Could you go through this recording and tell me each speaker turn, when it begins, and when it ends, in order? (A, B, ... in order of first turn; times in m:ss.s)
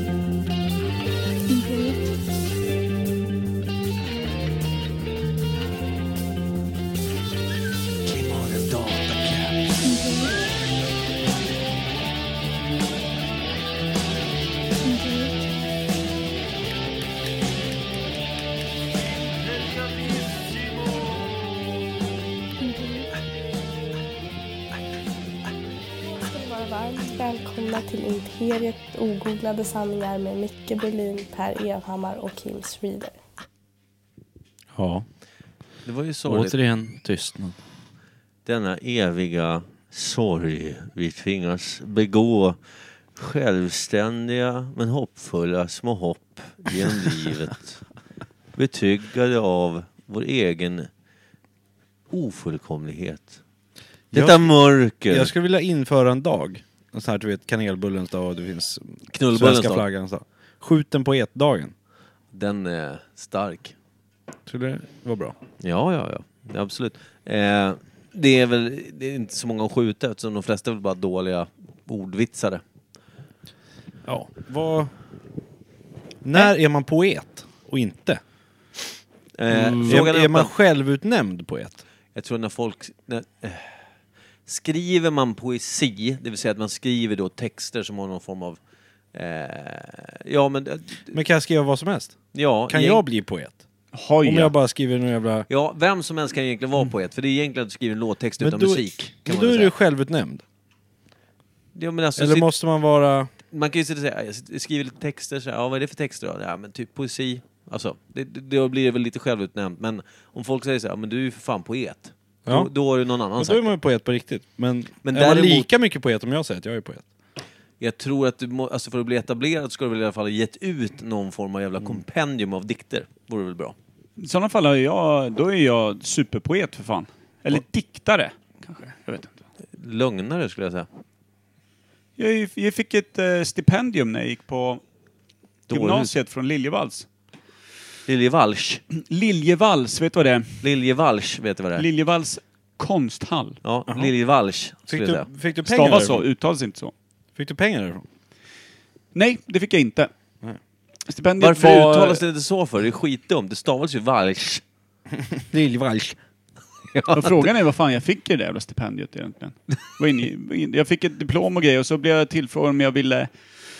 0:01.5-0:02.1 A
0:08.1-0:09.5 B
0:09.8-0:10.4 A
0:14.8-0:15.5 A
0:22.6-0:23.1 A
0:26.0-0:33.2 C
0:34.7-0:35.0 D
0:35.8-0:36.5 B
0:36.3-0:37.6 D
0:38.4-0:42.6 B
0:43.2-0:47.8 B
0:48.5-0:50.9 B
0:52.1-0:53.4 B
0:54.1-0:54.5 D
0:54.1-0:55.3 B
0:55.1-1:01.7 D
0:59.1-0:59.8 B
1:02.3-1:03.7 B
1:04.5-1:05.4 D
1:05.6-1:12.6 B
1:14.0-1:14.9 D
1:16.2-1:18.2 D
1:19.4-1:20.5 B
1:19.5-1:21.8 D
1:22.1-1:23.8 B
1:24.4-1:28.6 B
1:29.1-1:31.2 B
1:31.1-1:33.6 D
1:32.3-1:33.0 B
1:33.9-1:34.5 E
1:34.2-1:35.5 D
1:35.5-1:39.7 B
1:38.4-1:40.4 D
1:41.7-1:42.5 B
1:42.2-1:43.3 D
1:43.5-1:53.7 B
1:53.4-1:57.0 D
1:55.0-1:55.7 B
1:57.8-2:03.7 B
2:04.2-2:09.4 E
2:09.8-2:10.9 B
2:12.2-2:14.8 E
2:15.7-2:17.1 E
2:15.7-2:16.1 B
2:18.1-2:18.8 B
2:19.0-2:20.6 E
2:20.6-2:21.8 B
2:21.8-2:23.6 E
2:23.6-2:25.3 B
2:24.9-2:26.2 D
2:25.6-2:26.9 E
2:27.4-2:28.0 D
2:29.1-2:30.1 E
2:31.1-2:32.2 E
2:31.4-2:34.6 B
2:35.3-2:36.2 D
2:36.9-2:37.5 B
2:37.1-2:43.3 E